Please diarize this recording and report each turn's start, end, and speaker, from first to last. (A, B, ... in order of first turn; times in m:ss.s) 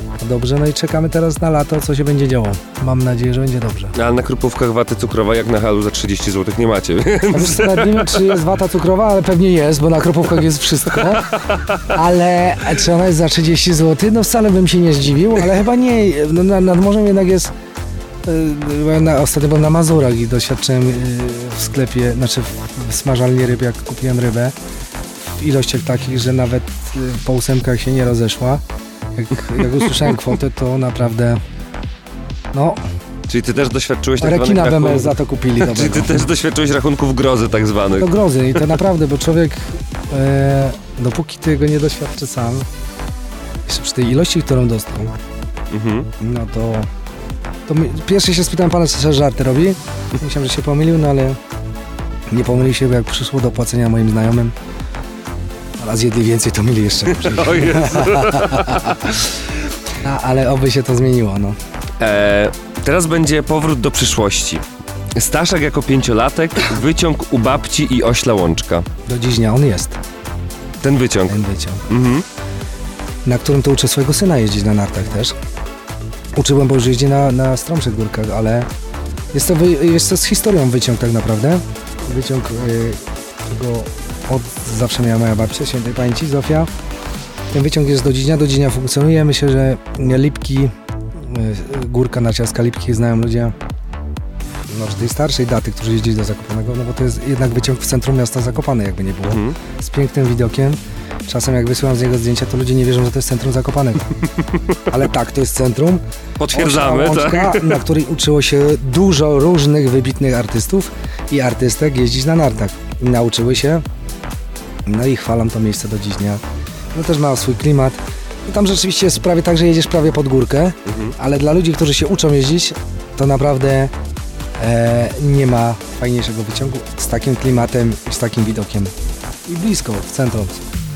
0:00.2-0:04.0 A
0:04.0-0:08.4 B
0:07.3-0:17.5 A
0:11.1-0:11.7 B
0:18.2-0:24.6 A
0:25.3-0:28.6 A
0:29.1-0:31.4 A
0:29.6-0:30.1 B
0:32.5-0:32.8 A
0:33.3-0:38.6 B
0:34.2-0:36.3 A
0:38.0-0:42.7 A
0:43.7-0:45.2 A
0:45.7-0:46.1 B
0:46.2-0:46.9 A
0:47.7-0:51.4 A
0:52.3-0:54.5 A
0:55.8-0:59.1 A
0:57.1-0:59.3 B
1:00.0-1:01.6 A
1:02.0-1:04.6 B
1:05.2-1:08.9 B
1:09.1-1:10.0 A
1:10.8-1:11.4 B
1:11.3-1:11.9 A
1:11.9-1:12.2 B
1:13.3-1:15.3 A
1:16.4-1:18.7 A
1:19.3-1:26.7 A
1:27.5-1:33.6 A
1:34.7-1:44.1 A
1:39.3-1:39.6 B
1:44.9-1:53.8 A
1:46.4-1:47.8 B
1:54.9-1:56.4 A
1:56.9-2:03.9 A
2:00.9-2:01.2 B
2:04.6-2:08.9 A
2:09.5-2:10.6 A